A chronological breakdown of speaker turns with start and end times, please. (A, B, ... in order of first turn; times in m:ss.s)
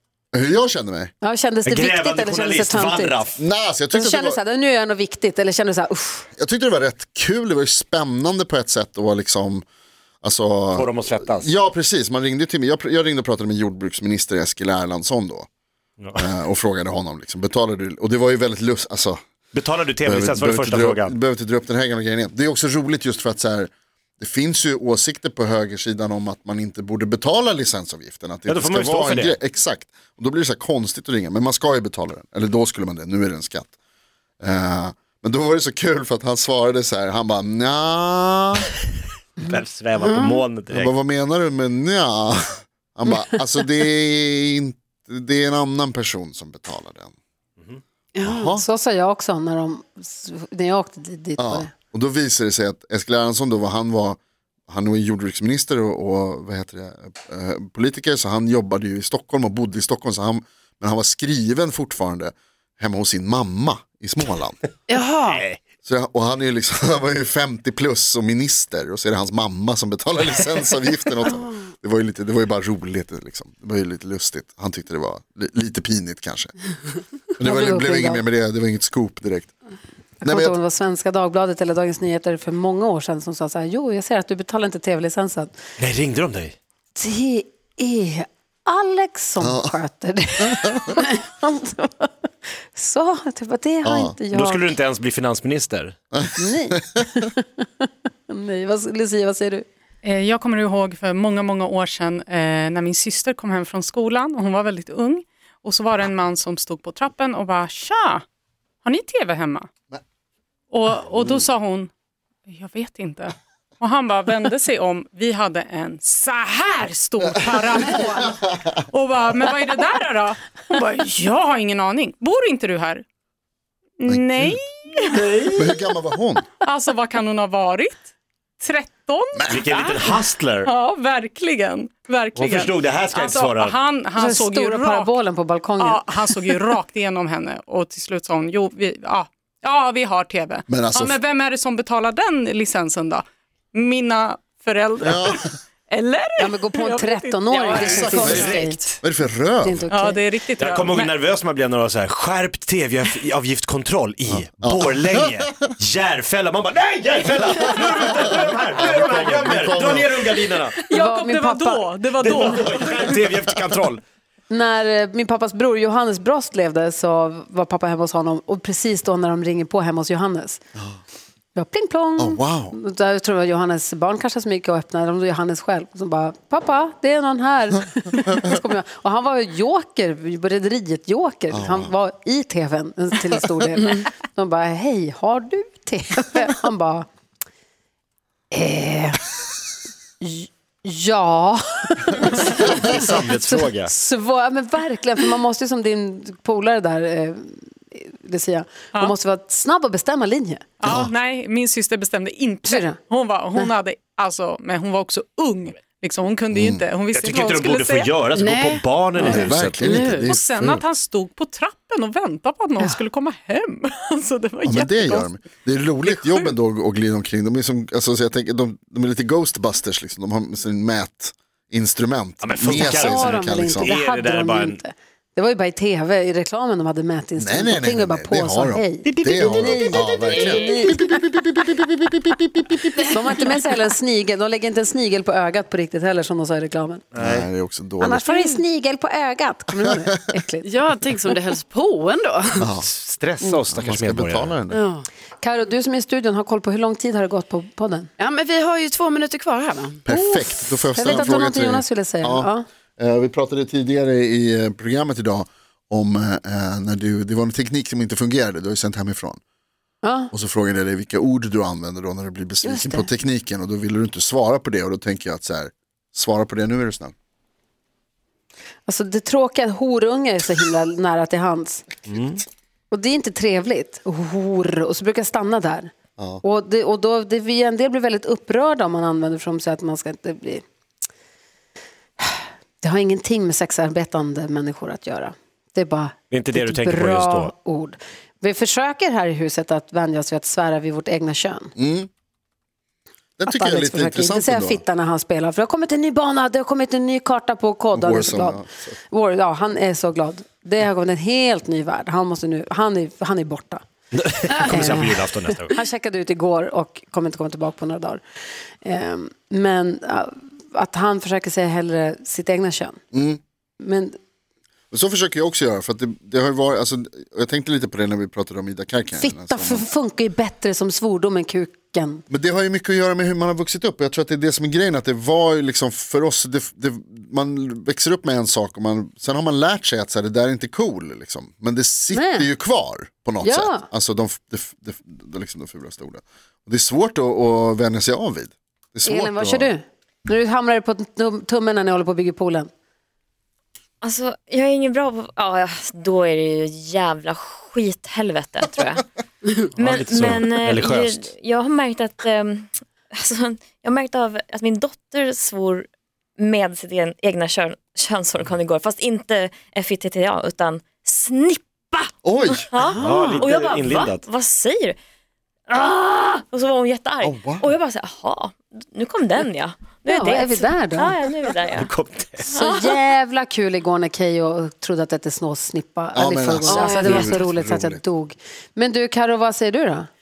0:00.3-0:01.1 A
0:01.2-0:03.2 B
0:01.6-0:03.4 C
0:03.4-0:04.4 A
0:03.9-0:06.3 B
0:06.4-0:09.6 A
0:10.2-0:15.5 A
0:10.7-0:11.5 C
0:16.0-0:16.2 C
0:16.2-0:19.2 A
0:19.5-0:21.2 C
0:20.0-0:33.7 A
0:28.4-0:29.4 C
0:34.4-0:38.7 A
0:39.4-0:41.0 C
0:40.7-0:47.1 A
0:48.1-0:48.5 D
0:48.2-0:48.6 A
0:48.6-0:51.7 B
0:51.4-1:04.6 A
1:04.9-1:05.4 D
1:05.3-1:05.6 C
1:05.8-1:16.5 A
1:17.3-1:19.5 A
1:17.4-1:18.2 B
1:20.2-1:25.5 B
1:20.2-1:20.6 A
1:25.8-1:26.5 C
1:26.9-1:32.1 B
1:29.4-1:29.8 A
1:30.4-1:30.9 A
1:32.7-1:34.7 B
1:33.8-1:34.2 A
1:34.3-1:36.0 C
1:36.1-1:36.8 A
1:36.4-1:37.6 B
1:38.3-1:39.6 B
1:40.0-1:48.2 E
1:48.8-1:49.7 E
1:50.7-1:51.9 E
1:52.5-2:03.0 E
2:04.0-2:05.2 E
2:04.1-2:04.6 A
2:05.0-2:05.7 C
2:05.5-2:06.5 A
2:06.6-2:08.1 E
2:08.6-2:15.1 E
2:09.4-2:09.7 A
2:09.5-2:10.7 C
2:12.3-2:13.8 C
2:14.2-2:16.6 B
2:15.8-2:29.0 E
2:20.7-2:21.2 A
2:25.0-2:25.4 A
2:26.4-2:28.8 B
2:27.7-2:28.5 C
2:27.8-2:29.8 A
2:29.6-2:30.2 B
2:29.9-2:31.1 E
2:30.6-2:40.8 C
2:34.6-2:35.5 A
2:38.1-2:40.2 A
2:40.8-2:43.1 E
2:40.9-2:42.6 B
2:42.2-2:44.0 C
2:44.5-2:50.6 B
2:51.5-3:07.0 B
2:52.2-2:52.8 A
3:01.5-3:01.9 A
3:08.5-3:09.2 B
3:10.2-3:20.7 B
3:12.3-3:13.9 C
3:20.8-3:28.4 E
3:20.8-3:21.1 A
3:22.6-3:23.0 B
3:26.5-3:26.8 A
3:27.1-3:30.1 C
3:28.3-3:29.2 D
3:29.2-3:30.8 A
3:29.9-3:30.2 D
3:30.0-3:35.3 E
3:34.6-3:43.9 A
3:36.0-3:36.5 E
3:42.4-3:44.8 C
3:42.6-3:51.0 B
3:47.4-3:53.1 A
3:49.0-3:50.0 C
3:50.1-3:50.6 D
3:53.1-3:57.0 B
3:57.1-3:57.5 C
3:57.2-3:58.5 A
3:58.0-4:00.6 B
4:00.6-4:02.7 D
4:02.6-4:02.9 A
4:02.8-4:04.6 C
4:03.7-4:04.8 A
4:04.7-4:05.0 D
4:05.4-4:08.1 B
4:08.2-4:10.0 D
4:10.0-4:19.4 A
4:10.1-4:12.6 B
4:20.0-4:20.3 B
4:20.3-4:27.1 A
4:22.6-4:23.1 B
4:28.8-4:31.8 B
4:32.1-4:32.4 C
4:32.9-4:40.6 B
4:36.2-4:36.4 A
4:42.2-4:51.7 B
4:46.3-4:47.5 C
4:51.8-4:52.1 A
4:53.4-4:54.8 A
4:53.5-5:03.8 B
4:57.9-4:59.0 A
5:04.1-5:05.8 C
5:04.5-5:08.2 B
5:08.8-5:13.0 B
5:13.1-5:13.4 A
5:13.8-5:14.2 B
5:14.9-5:19.8 A
5:19.1-5:22.2 B
5:22.3-5:39.7 A
5:32.1-5:32.5 B
5:33.4-5:33.9 B
5:39.0-5:42.7 B
5:44.0-5:49.0 F
5:49.8-5:51.3 C
5:49.8-6:05.0 F
6:02.2-6:02.9 A
6:03.0-6:04.2 C
6:05.7-6:11.9 F
6:07.2-6:07.6 A
6:10.1-6:11.1 B
6:11.7-6:12.5 C
6:12.5-6:12.9 F
6:12.5-6:20.1 B
6:16.1-6:18.0 A
6:16.7-6:17.4 D